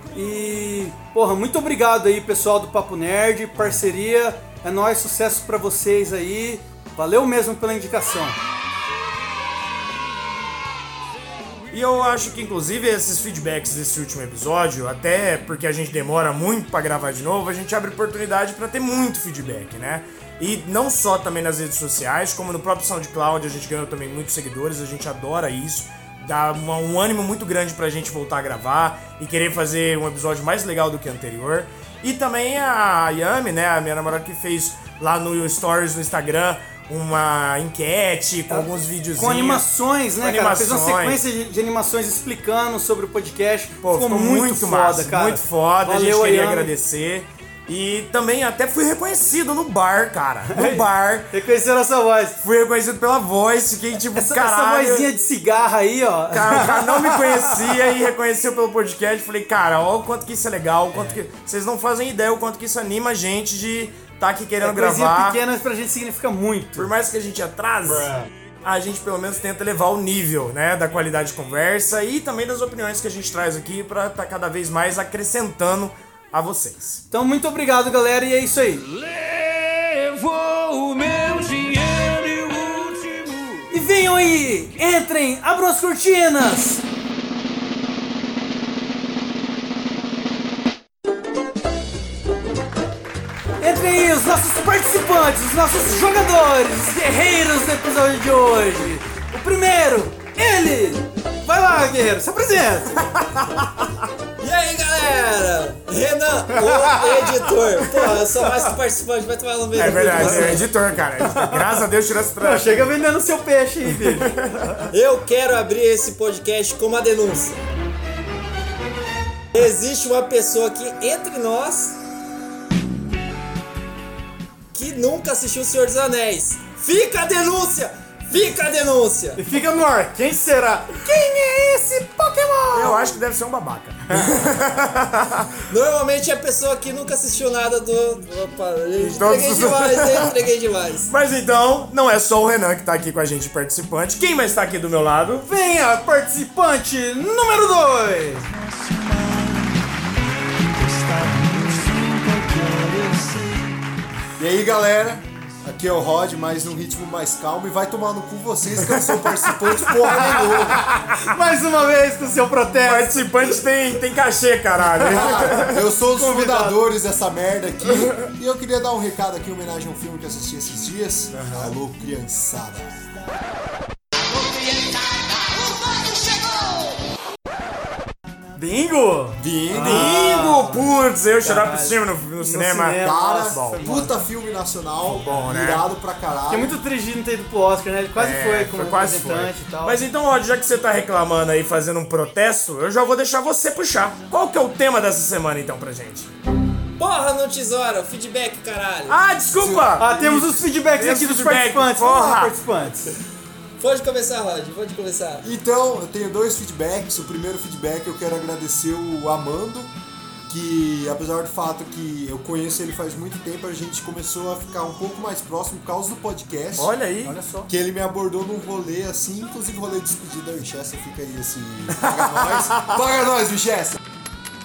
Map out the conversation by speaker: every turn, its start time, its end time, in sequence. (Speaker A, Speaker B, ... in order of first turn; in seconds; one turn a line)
Speaker A: 0.1-8.4
Speaker B: 11.7-39.6
Speaker A: 38.5-46.7
Speaker B: 40.2-41.2
Speaker B: 43.8-51.3
Speaker A: 50.5-52.4
Speaker B: 52.4-55.1
Speaker A: 54.1-57.8
Speaker B: 56.3-65.4
Speaker A: 64.6-66.9
Speaker B: 66.8-68.1
Speaker B: 68.6-77.0
Speaker A: 77.1-78.8
Speaker C: 78.8-83.7
Speaker A: 83.7-86.8
Speaker A: 93.6-103.0
Speaker D: 104.4-110.7
Speaker A: 106.7-107.4
Speaker B: 109.8-112.9
Speaker A: 109.8-110.7
Speaker A: 111.2-111.8
Speaker A: 112.4-114.8
Speaker B: 113.9-114.5
Speaker D: 114.9-117.6
Speaker D: 119.5-122.0
Speaker D: 124.7-129.4
Speaker A: 129.4-133.2
Speaker B: 132.7-135.5
Speaker D: 135.7-141.1
Speaker B: 139.0-140.3
Speaker B: 141.1-145.5
Speaker A: 145.4-148.5
Speaker E: 154.4-160.8
Speaker B: 159.0-159.3
Speaker A: 161.3-163.6
Speaker B: 162.8-165.8
Speaker E: 165.0-172.9
Speaker A: 166.1-166.8
Speaker A: 171.4-171.7
Speaker A: 178.6-180.9
Speaker E: 179.4-180.2
Speaker B: 179.7-183.9
Speaker A: 181.4-184.1
Speaker E: 183.0-186.8
Speaker B: 185.2-185.8
Speaker A: 186.5-190.0
Speaker B: 188.2-196.3
Speaker D: 197.0-199.2
Speaker B: 199.1-202.5
Speaker A: 199.5-203.1
Speaker D: 203.8-205.5
Speaker E: 205.4-209.9
Speaker E: 210.5-216.9
Speaker B: 216.8-217.4
Speaker A: 217.2-217.7
Speaker E: 217.7-224.0
Speaker B: 222.0-222.9